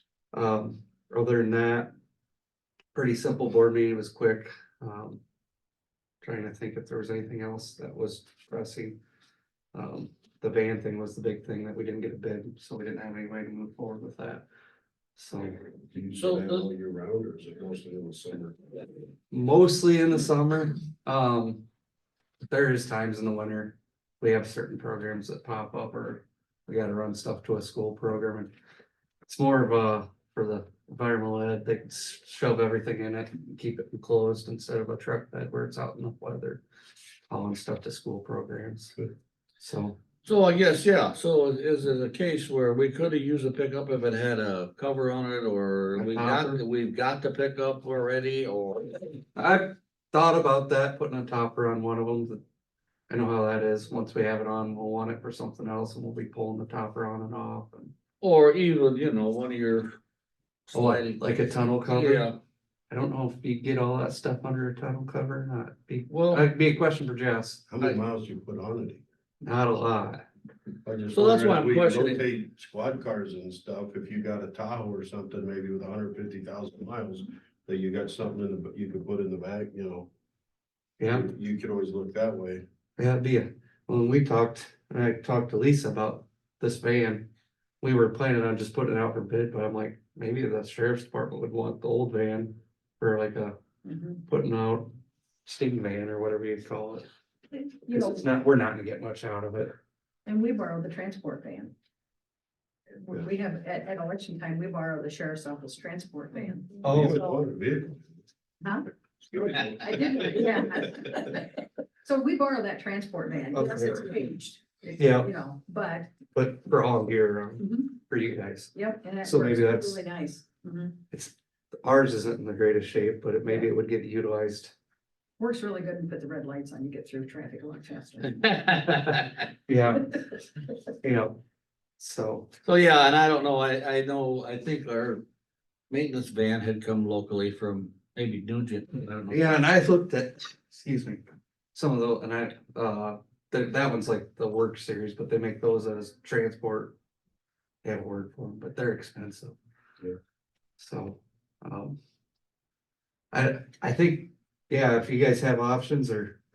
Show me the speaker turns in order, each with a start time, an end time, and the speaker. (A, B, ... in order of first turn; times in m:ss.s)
0:00.3-0:01.9 A
0:02.9-0:05.2 A
0:06.2-0:09.0 A
0:09.7-0:14.4 A
0:15.2-0:15.6 A
0:15.9-0:18.6 B
0:16.1-0:16.7 C
0:19.3-0:21.6 A
0:22.5-0:28.5 A
0:29.3-0:36.6 A
0:37.3-0:39.0 A
0:39.6-0:40.0 A
0:40.2-0:49.1 C
0:45.9-0:46.6 A
0:49.4-0:52.4 A
0:53.1-0:57.9 A
0:58.2-1:00.0 C
1:00.7-1:02.4 C
1:00.7-1:02.3 A
1:02.9-1:07.7 A
1:06.1-1:06.5 C
1:07.7-1:09.0 B
1:09.4-1:10.2 A
1:10.8-1:20.1 B
1:11.1-1:12.2 C
1:21.0-1:21.3 A
1:21.1-1:22.6 B
1:23.0-1:27.3 A
1:27.8-1:33.6 A
1:33.8-1:34.2 D
1:34.2-1:34.9 A
1:35.4-1:37.1 A
1:37.8-1:38.2 D
1:37.9-1:39.7 A
1:40.2-1:41.7 D
1:43.0-1:47.2 D
1:46.8-1:47.2 A
1:46.8-1:48.1 B
1:48.6-1:48.9 D
1:49.3-1:49.8 B
1:49.6-1:56.1 D
1:53.5-1:54.0 A
1:55.0-1:55.3 A
1:56.3-2:00.0 A
1:57.6-1:57.9 D
1:58.7-2:01.0 D
2:01.1-2:04.7 A
2:05.4-2:08.4 D
2:08.3-2:09.5 C
2:09.7-2:10.2 A
2:11.0-2:11.4 A
2:12.0-2:12.5 A
2:12.6-2:15.2 C
2:15.9-2:19.6 C
2:19.3-2:21.2 A
2:21.7-2:26.9 A
2:27.8-2:29.6 A
2:30.8-2:32.0 A
2:33.3-2:36.4 A